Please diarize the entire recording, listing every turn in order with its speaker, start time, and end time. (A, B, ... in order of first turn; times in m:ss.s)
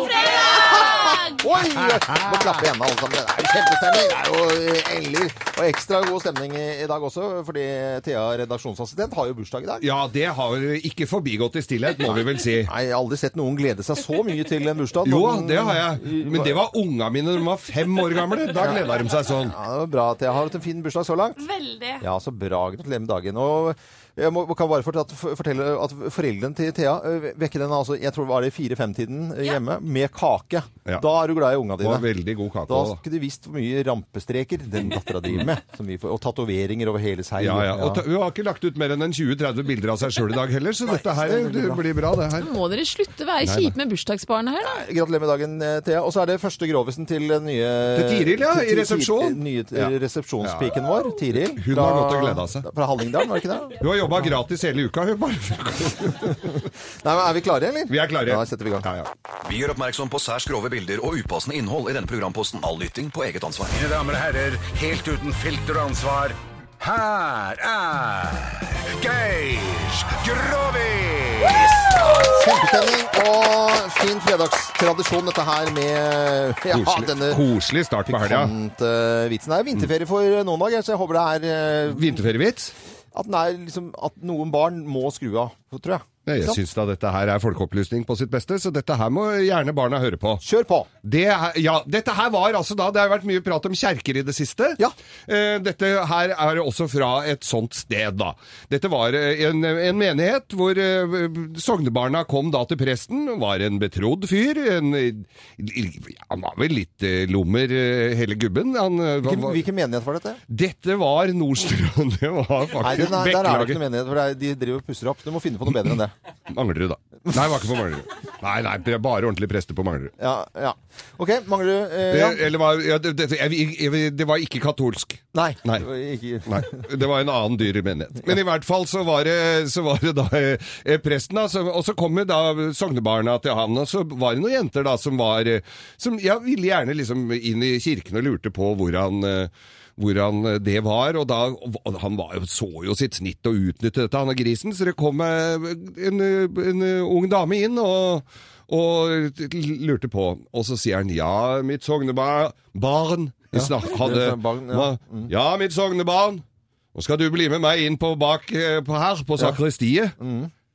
0:00.2-0:09.9 A
0:09.8-0:12.7 B
0:12.6-0:16.6 A
0:15.0-0:19.6 B
0:19.4-0:21.5 A
0:21.5-0:22.0 C
0:22.0-0:32.1 A
0:31.8-0:33.0 B
0:32.7-0:38.0 A
0:37.4-0:42.5 B
0:40.9-0:41.8 A
0:42.4-0:44.8 C
0:43.4-0:43.8 B
0:44.6-0:53.8 A
0:47.9-0:50.8 B
0:51.3-0:52.7 B
0:53.8-0:56.6 B
0:56.4-0:58.9 A
0:57.9-0:59.1 B
0:59.4-1:03.8 D
1:03.7-1:12.0 E
1:12.1-1:17.4 A
1:16.7-1:18.5 B
1:18.1-1:22.2 A
1:21.9-1:22.8 B
1:23.1-1:26.6 A
1:26.3-1:30.4 B
1:30.4-1:30.9 A
1:31.0-1:49.6 B
1:49.2-1:50.4 A
1:50.5-1:53.8 B
1:52.8-1:56.1 A
1:56.5-2:00.1 B
2:00.2-2:02.4 A
2:02.1-2:05.9 B
2:05.3-2:06.9 A
2:06.5-2:36.4 B
2:33.5-2:35.3 A
2:36.9-2:40.2 B
2:40.2-2:40.5 A